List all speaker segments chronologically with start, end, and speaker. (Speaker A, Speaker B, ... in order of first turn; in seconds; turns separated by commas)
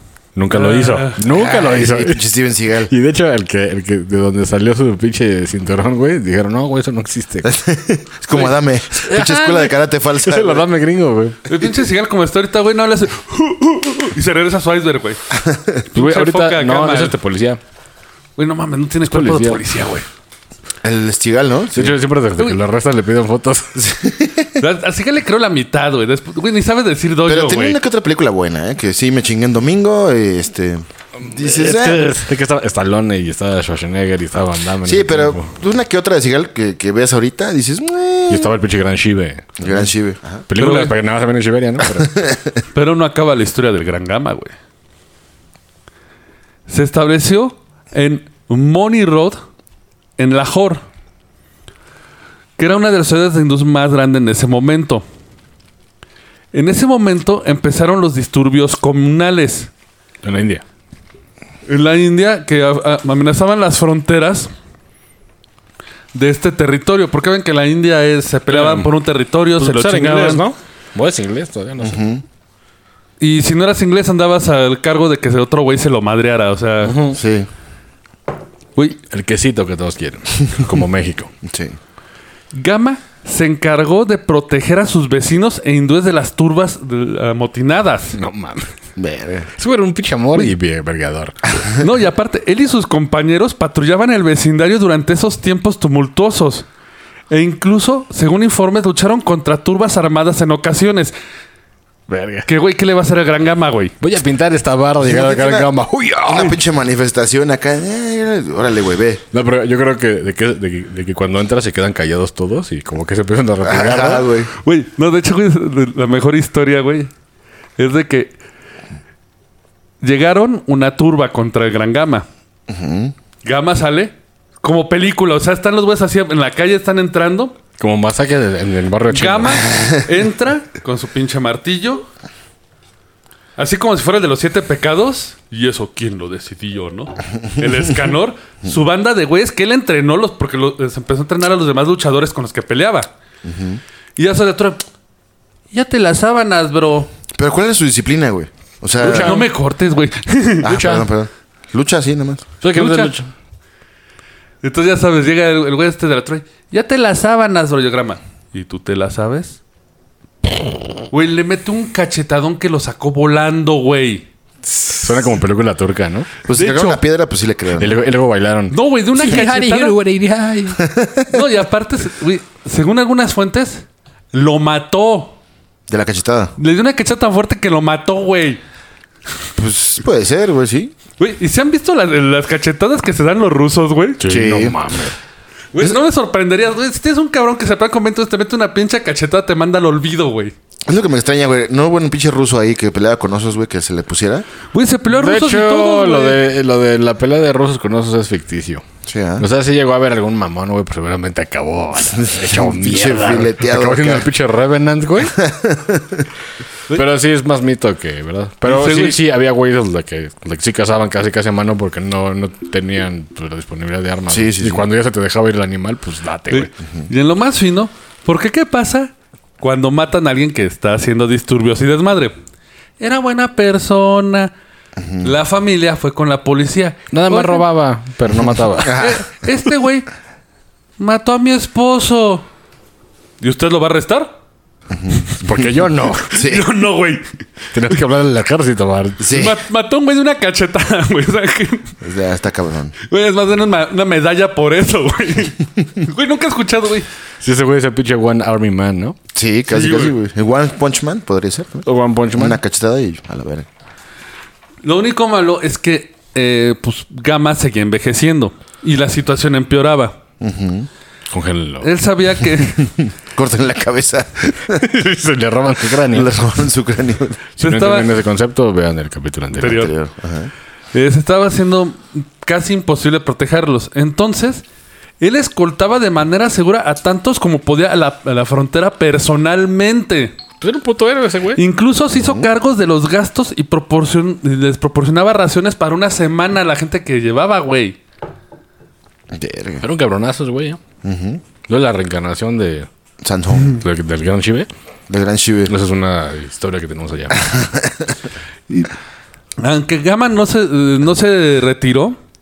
Speaker A: 0.3-2.2, Speaker B: 0.5-1.2, Speaker C: 1.3-2.9, Speaker A: 2.9-7.5, Speaker C: 7.4-10.6, Speaker A: 8.9-11.4, Speaker B: 11.5-15.2, Speaker C: 15.3-15.8, Speaker B: 15.9-17.1, Speaker A: 15.9-17.6, Speaker B: 18.4-20.1, Speaker A: 19.1-19.6, Speaker C: 20.8-22.0, Speaker A: 21.7-23.8, Speaker C: 23.8-24.6, Speaker B: 24.6-27.8, Speaker C: 27.2-32.1, Speaker A: 31.2-35.5, Speaker C: 34.8-38.5, Speaker A: 38.3-39.9, Speaker C: 39.6-40.5, Speaker A: 40.5-42.2, Speaker B: 40.5-40.9, Speaker C: 42.0-42.4, Speaker B: 42.7-44.5, Speaker B: 46.7-49.4, Speaker B: 50.2-50.8, Speaker B: 52.6-55.0, Speaker B: 56.5-59.7, Speaker A: 60.2-60.6, Speaker B: 61.7-64.5, Speaker B: 66.1-70.4, Speaker A: 68.5-68.9, Speaker A: 69.6-72.0, Speaker C: 71.8-72.2, Speaker B: 73.2-77.0, Speaker A: 76.8-77.2, Speaker C: 77.1-77.5, Speaker A: 79.1-81.3, Speaker C: 81.5-81.8, Speaker B: 82.5-88.1, Speaker A: 88.1-88.7, Speaker C: 89.0-89.5, Speaker A: 89.6-91.6, Speaker B: 91.8-96.7, Speaker B: 97.3-101.1, Speaker A: 102.1-102.5, Speaker B: 102.5-103.9, Speaker A: 104.0-106.6, Speaker C: 105.0-105.7, Speaker C: 106.2-109.2, Speaker A: 109.3-114.3, Speaker C: 113.6-114.5, Speaker B: 114.6-117.1, Speaker B: 117.8-118.3, Speaker B: 120.0-122.2, Speaker C: 122.7-123.1, Speaker B: 123.4-127.5, Speaker A: 127.8-129.7, Speaker B: 129.1-132.1, Speaker B: 133.6-143.1, Speaker C: 143.4-143.8, Speaker B: 144.2-144.8, Speaker B: 145.7-147.1, Speaker C: 147.3-149.5, Speaker A: 149.0-149.5, Speaker B: 149.0-150.7, Speaker C: 150.6-152.4, Speaker A: 150.7-151.1, Speaker A: 152.6-153.3, Speaker B: 152.7-153.1, Speaker B: 154.6-159.6, Speaker B: 161.1-164.3, Speaker A: 164.7-166.3, Speaker C: 166.4-168.0, Speaker B: 166.5-167.0, Speaker A: 167.8-170.8, Speaker B: 168.7-169.9, Speaker C: 170.8-171.4, Speaker B: 171.3-175.4, Speaker C: 175.9-176.5, Speaker B: 176.6-178.6, Speaker C: 179.6-180.9, Speaker B: 181.2-184.2, Speaker A: 184.2-185.2, Speaker C: 184.2-184.8, Speaker B: 185.7-190.5, Speaker C: 190.9-194.4, Speaker B: 194.7-196.4, Speaker A: 195.1-198.8, Speaker C: 199.1-199.5, Speaker A: 199.4-205.3, Speaker C: 202.1-204.3, Speaker C: 205.2-206.3, Speaker A: 206.9-216.7, Speaker B: 208.6-209.2, Speaker C: 214.3-214.8, Speaker B: 216.5-222.4, Speaker B: 223.0-224.5, Speaker C: 225.0-225.3, Speaker B: 225.2-227.6, Speaker A: 227.1-229.1, Speaker C: 228.8-229.2, Speaker B: 228.9-230.1, Speaker B: 231.0-232.4, Speaker B: 233.4-234.3, Speaker C: 234.9-235.7, Speaker A: 235.3-236.4, Speaker C: 236.3-236.7, Speaker B: 236.3-237.3, Speaker A: 237.7-239.5, Speaker C: 239.2-239.6, Speaker B: 239.3-241.9, Speaker C: 242.0-242.9, Speaker B: 243.1-247.1, Speaker A: 247.4-249.2, Speaker C: 249.3-253.7, Speaker B: 249.7-250.1, Speaker A: 251.8-252.6, Speaker B: 254.8-260.2, Speaker C: 260.4-260.9, Speaker A: 261.3-261.9, Speaker B: 261.8-262.9, Speaker C: 262.8-264.9, Speaker A: 264.7-266.4, Speaker C: 266.1-267.4, Speaker B: 267.6-268.1, Speaker A: 267.6-269.9, Speaker B: 269.6-269.9, Speaker C: 269.6-270.5, Speaker B: 270.9-274.6, Speaker B: 275.2-280.4, Speaker A: 280.6-281.6, Speaker B: 281.6-288.0, Speaker C: 282.1-282.5, Speaker C: 289.3-289.8, Speaker A: 289.8-290.8, Speaker C: 291.0-291.4, Speaker A: 291.7-292.9, Speaker C: 293.2-293.8, Speaker A: 293.6-294.7, Speaker C: 295.1-295.7, Speaker A: 295.6-297.6, Speaker C: 297.4-298.1, Speaker B: 299.6-302.2